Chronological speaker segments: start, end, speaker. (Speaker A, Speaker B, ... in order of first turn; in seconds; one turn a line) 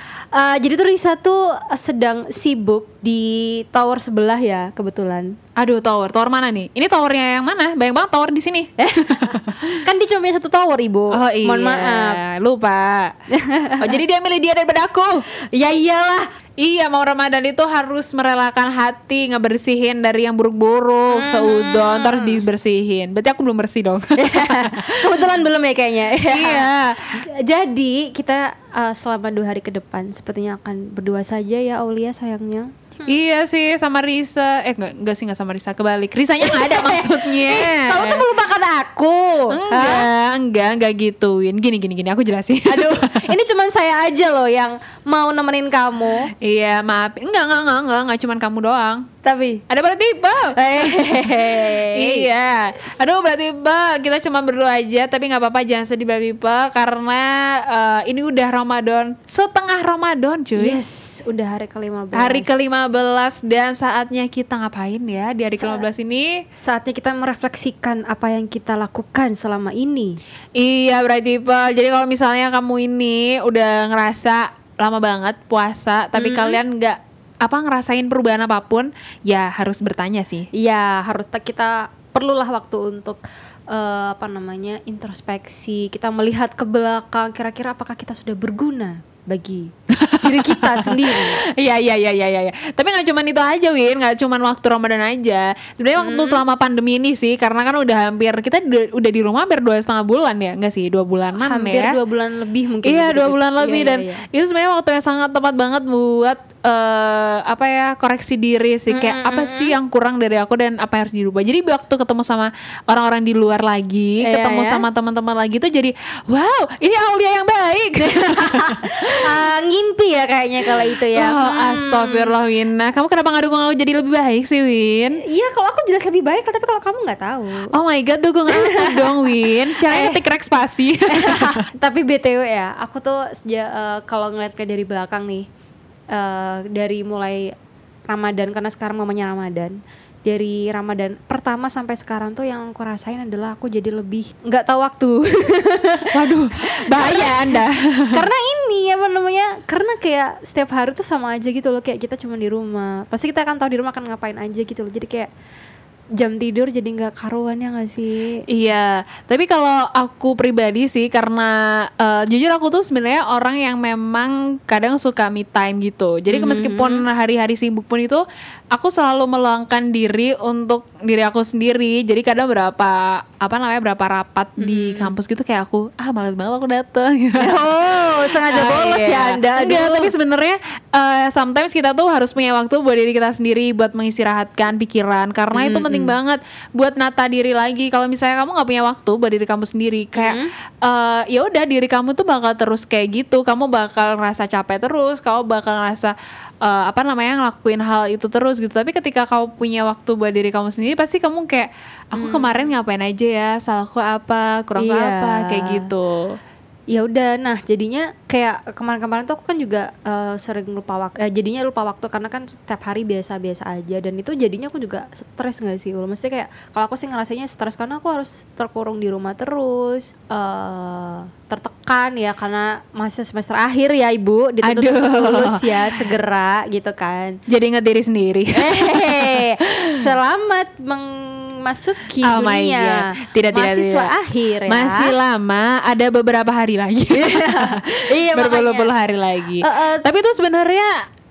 Speaker A: 0.3-5.3
Speaker B: 5.6-9.7
Speaker A: 8.8-12.2
Speaker B: 11.1-13.1
Speaker A: 13.3-14.0
Speaker B: 13.8-15.2
Speaker A: 15.5-16.2
Speaker B: 16.6-25.0
Speaker A: 21.1-22.4
Speaker A: 24.1-33.1
Speaker B: 26.3-27.0
Speaker B: 33.1-38.2
Speaker A: 36.4-40.1
Speaker B: 39.5-43.0
Speaker A: 42.6-46.3
Speaker B: 46.4-49.0
Speaker A: 49.2-49.6
Speaker B: 49.7-60.8
Speaker A: 50.5-52.3
Speaker A: 60.6-62.7
Speaker B: 62.1-66.4
Speaker A: 65.5-65.8
Speaker A: 66.5-70.2
Speaker B: 70.6-80.5
Speaker A: 76.2-76.6
Speaker A: 80.5-91.4
Speaker B: 90.0-90.8
Speaker B: 91.5-101.9
Speaker A: 96.0-96.4
Speaker A: 101.3-104.2
Speaker B: 102.8-119.2
Speaker A: 108.9-109.8
Speaker A: 114.2-114.8
Speaker A: 118.0-122.3
Speaker B: 121.1-125.2
Speaker A: 125.2-127.7
Speaker B: 127.7-131.6
Speaker A: 128.5-130.2
Speaker A: 131.1-135.4
Speaker A: 136.1-137.5
Speaker A: 138.1-146.1
Speaker B: 146.1-148.2
Speaker A: 146.9-147.6
Speaker A: 148.1-155.3
Speaker A: 156.2-158.4
Speaker B: 158.5-177.6
Speaker A: 166.3-167.0
Speaker A: 174.6-175.1
Speaker A: 177.4-180.1
Speaker B: 178.4-206.3
Speaker A: 185.5-186.1
Speaker A: 190.2-190.5
Speaker A: 202.1-202.7
Speaker A: 204.8-205.9
Speaker A: 206.9-227.4
Speaker B: 224.6-226.0
Speaker B: 227.5-229.7
Speaker A: 228.5-235.1
Speaker B: 232.2-234.1
Speaker B: 234.7-241.0
Speaker A: 237.1-238.9
Speaker A: 239.6-240.1